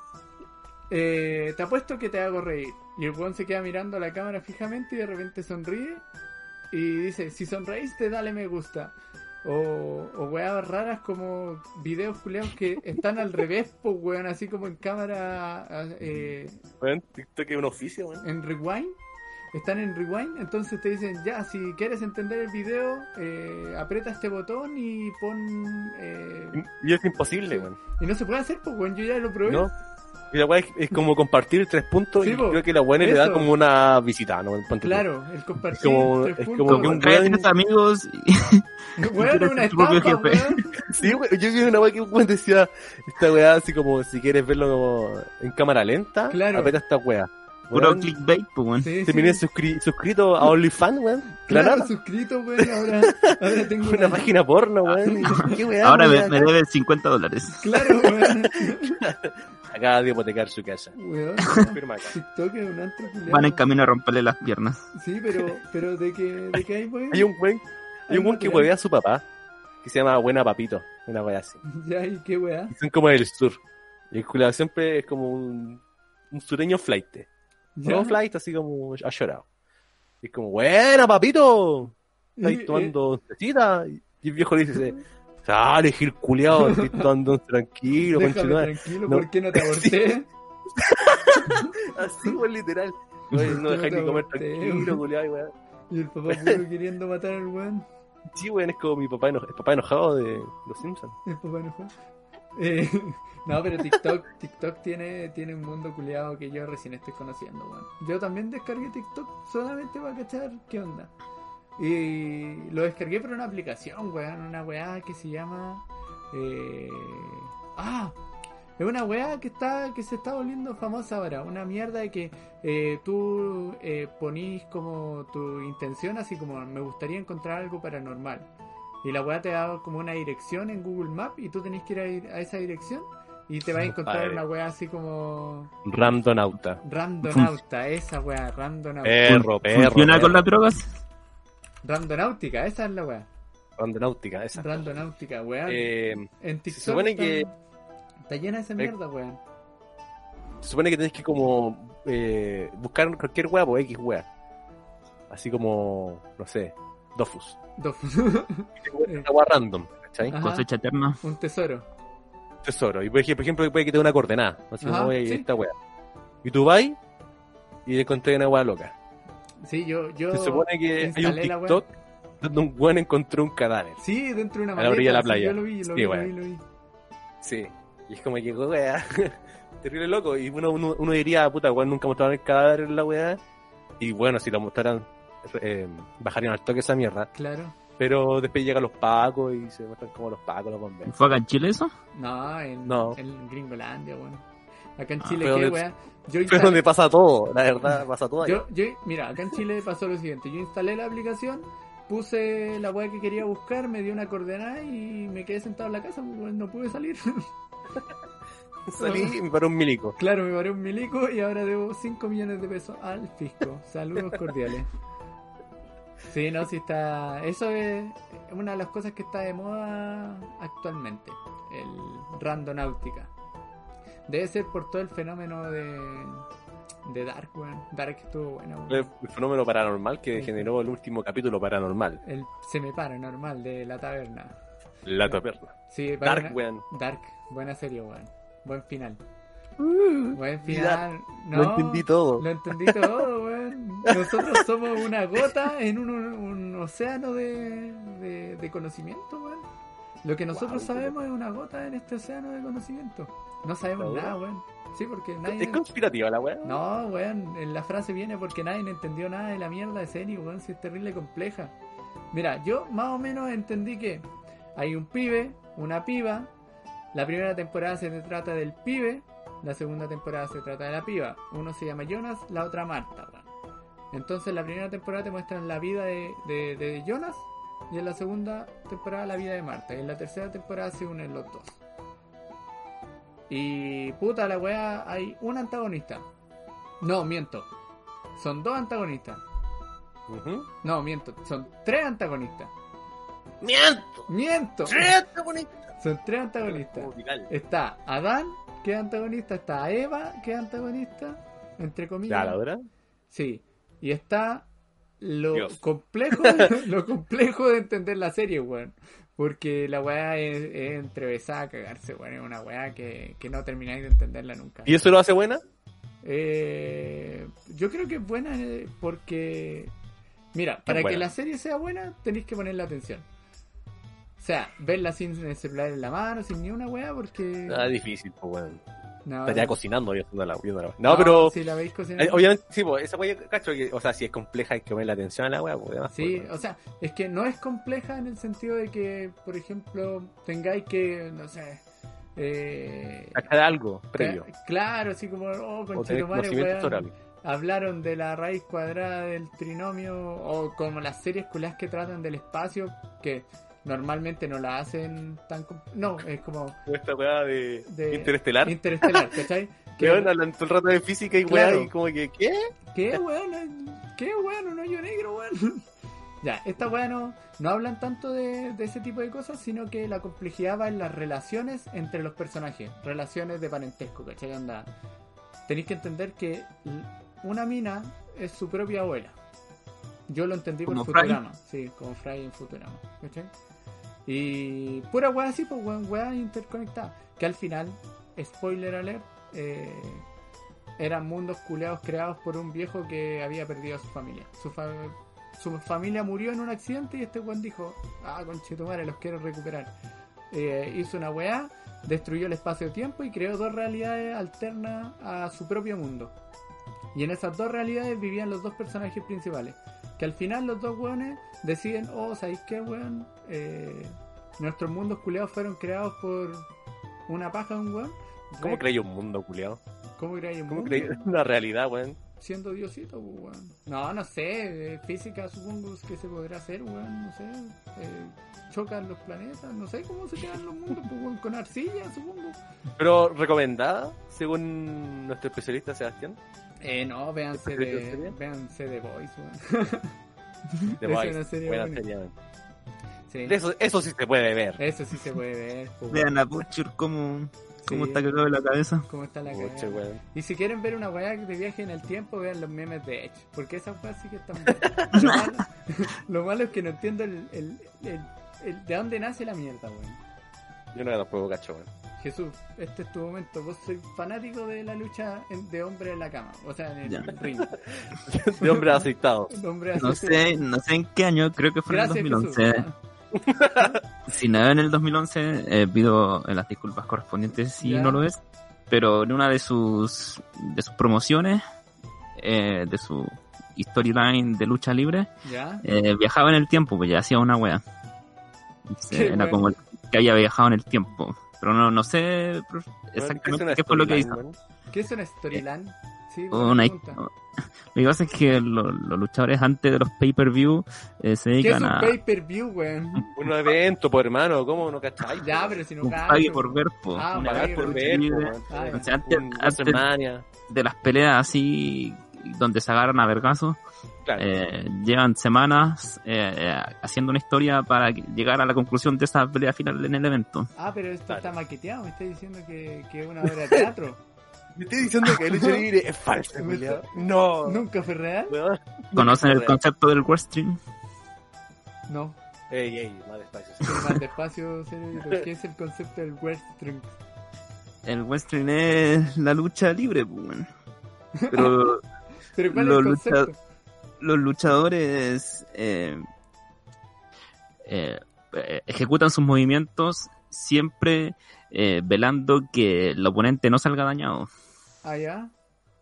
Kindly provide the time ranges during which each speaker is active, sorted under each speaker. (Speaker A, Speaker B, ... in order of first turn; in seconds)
Speaker A: 0.9-6.0, 6.7-16.6, 18.2-18.9, 19.5-26.6, 27.5-29.7, 32.2-33.5, 34.8-37.1, 39.0-40.6, 46.3-46.8, 48.8-49.4, 51.5-54.3, 55.2-55.6, 57.6-59.0, 61.0-63.6, 64.9-67.3, 68.1-68.7, 71.7-72.7, 77.8-78.2, 82.4-82.9, 86.5-87.1, 88.0-90.3, 93.3-95.0, 95.9-97.8, 101.2-101.9, 102.5-111.1, 111.8-118.2, 118.8-128.5, 129.0-135.7, 136.8-139.3, 141.8-143.3, 144.6-147.5, 148.3-149.4, 157.8-159.3, 160.2-160.7, 161.2-161.8, 164.8-165.4, 169.6-171.8, 174.0-176.6, 187.3-187.8, 192.1-194.4, 195.0-196.8, 198.4-207.5, 209.0-209.3, 210.2-214.9, 216.3-223.3, 224.3-226.4, 227.0-229.1, 230.3-230.7, 232.2-234.5, 235.9-239.2, 240.3-249.7, 250.2-255.9, 256.6-261.7, 262.3-266.5, 267.1-273.5, 274.1-281.7, 283.5-286.2, 287.0-287.7, 288.4-289.4, 290.8-292.7, 294.3-295.2, 296.0-302.6, 303.3-304.7, 305.2-314.9, 316.2-319.9, 320.5-323.2, 324.4-327.9, 329.2-329.8, 331.1-332.5, 336.1-341.8, 342.4-343.5, 344.2-356.8, 357.9-360.3, 361.5-361.9, 362.9-365.8, 366.4-374.9, 375.7-379.4, 380.3-383.5, 384.2-390.2, 391.0-399.9, 400.5-406.3, 407.1-416.7, 417.3-418.8, 420.2-421.2, 422.4-432.6, 436.8-440.1, 440.8-442.0, 443.3-443.6, 444.8-446.4, 447.8-448.3, 449.1-460.2, 462.2-467.8, 468.6-470.5, 471.9-472.9, 477.8-478.2, 485.4-485.8, 489.1-489.8, 494.9-497.2, 501.6-503.3, 505.4-509.1, 520.8-524.2, 525.5-525.8, 526.6-528.5, 532.1-532.4, 533.8-537.2, 541.4-541.9, 542.5-543.6, 555.0-555.5
Speaker B: 16.8-18.3, 26.5-27.8, 29.4-29.7, 30.3-35.0, 35.7-37.5, 40.9-48.1, 49.0-51.9, 52.6-56.5, 58.5-60.9, 61.5-62.1, 67.1-69.2, 69.8-71.6, 72.7-73.6, 74.1-77.3, 77.8-79.4, 80.2-90.1, 90.8-95.5, 96.3-96.6, 98.3-101.1, 134.0-134.4, 135.8-136.8, 139.0-140.4, 143.8-144.8, 145.7-147.4, 150.6-154.2, 155.3-157.6, 158.8-160.3, 162.6-165.7, 166.4-167.0, 167.8-168.9, 170.3-171.9, 172.4-174.0, 174.8-176.3, 177.4-183.4, 184.0-187.3, 188.0-191.2, 192.8-193.2, 195.3-195.8, 196.5-198.6, 208.9-210.2, 228.9-232.2, 235.1-236.8, 239.8-243.2, 244.0-244.7, 250.5-251.1, 254.0-254.3, 255.4-256.8, 290.3-290.7, 293.6-294.3, 294.9-295.7, 296.6-297.5, 302.3-302.8, 306.3-306.7, 314.9-315.6, 320.9-321.3, 327.7-328.8, 329.5-331.5, 332.2-336.5, 343.3-344.4, 345.9-347.1, 356.9-359.4, 360.0-362.7, 418.6-419.8, 420.7-422.2, 433.0-436.4, 437.6-438.3, 441.0-442.3, 443.4-444.8, 449.5-450.2, 454.7-455.1, 460.9-461.9, 467.6-469.6, 473.3-474.0, 493.2-494.6, 503.3-505.8, 507.4-510.4, 514.2-514.5, 524.8-527.8, 528.5-529.8, 532.7-534.1
Speaker C: 36.7-40.9, 47.7-48.9, 55.2-57.8, 63.3-64.9, 137.2-137.5, 139.3-140.9, 160.3-161.2, 191.1-191.9, 380.9-381.4, 446.1-449.1, 455.1-455.4, 467.1-467.4, 469.9-472.9, 474.3-481.6, 482.4-485.3, 485.8-487.8, 488.9-494.4, 496.5-497.3, 497.9-502.2, 506.0-510.0, 510.7-513.8, 514.4-520.7, 529.1-530.8, 538.0-540.7, 541.5-542.0, 542.7-543.5, 544.2-546.2, 547.8-554.5